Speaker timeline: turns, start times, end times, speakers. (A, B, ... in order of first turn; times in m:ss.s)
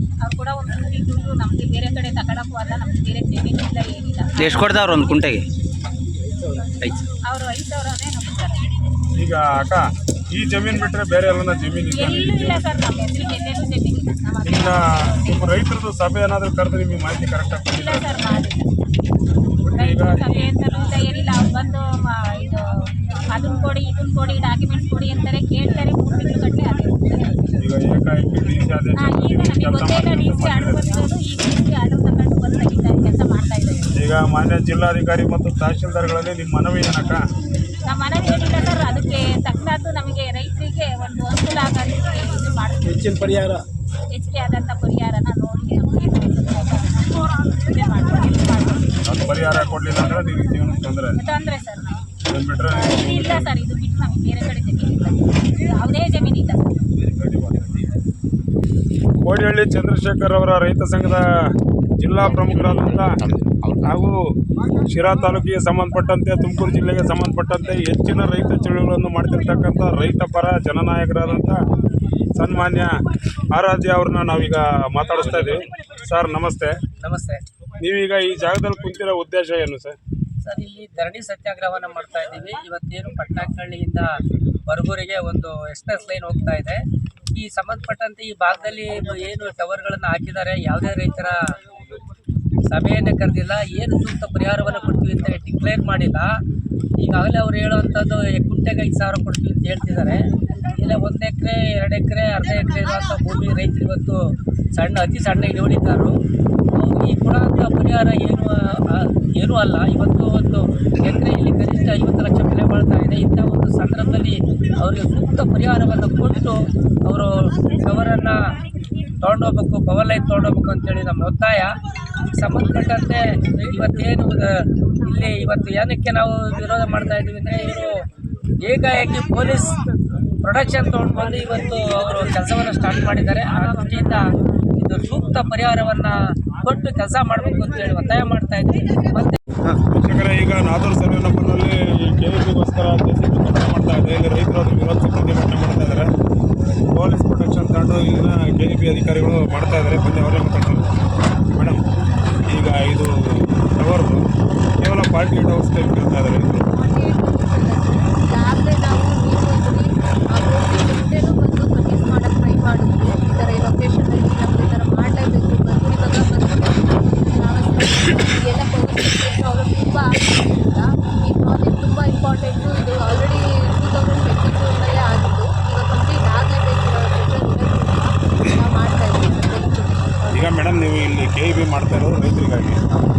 0:00.2-0:05.3 A
0:04.4-0:05.4 B
0:06.8-0:07.1 B
0:07.2-0:08.7 A
0:09.2-0:12.7 C
0:11.9-0:15.6 A
0:14.4-0:18.1 C
0:17.7-0:18.7 A
0:19.6-0:20.5 C
0:19.7-0:27.6 A
0:27.6-0:31.1 C
0:28.9-0:33.9 A
0:33.9-0:37.2 C
0:37.8-0:43.3 A
0:44.1-0:48.9 A
0:49.0-0:51.2 C
0:51.2-0:52.1 A
0:52.2-0:53.5 C
0:52.7-0:56.8 A
0:57.0-0:57.7 C
0:59.2-1:03.2 C
1:02.3-1:04.1 B
1:03.8-1:04.3 C
1:04.9-1:11.6 C
1:12.4-1:13.0 C
1:13.5-1:16.8 C
1:17.0-1:17.4 D
1:17.8-1:20.0 C
1:20.4-1:31.6 D
1:32.7-1:36.4 D
1:37.0-1:46.2 D
1:46.7-1:58.6 D
1:59.2-2:01.8 D
2:02.3-2:08.0 D
2:08.6-2:09.8 D
2:10.4-2:19.4 D
2:19.8-2:26.1 C
2:26.9-2:30.9 C
2:31.5-2:31.8 C
2:32.5-2:34.2 C
2:34.8-2:36.7 C
2:36.7-3:00.7 E
3:00.3-3:02.8 C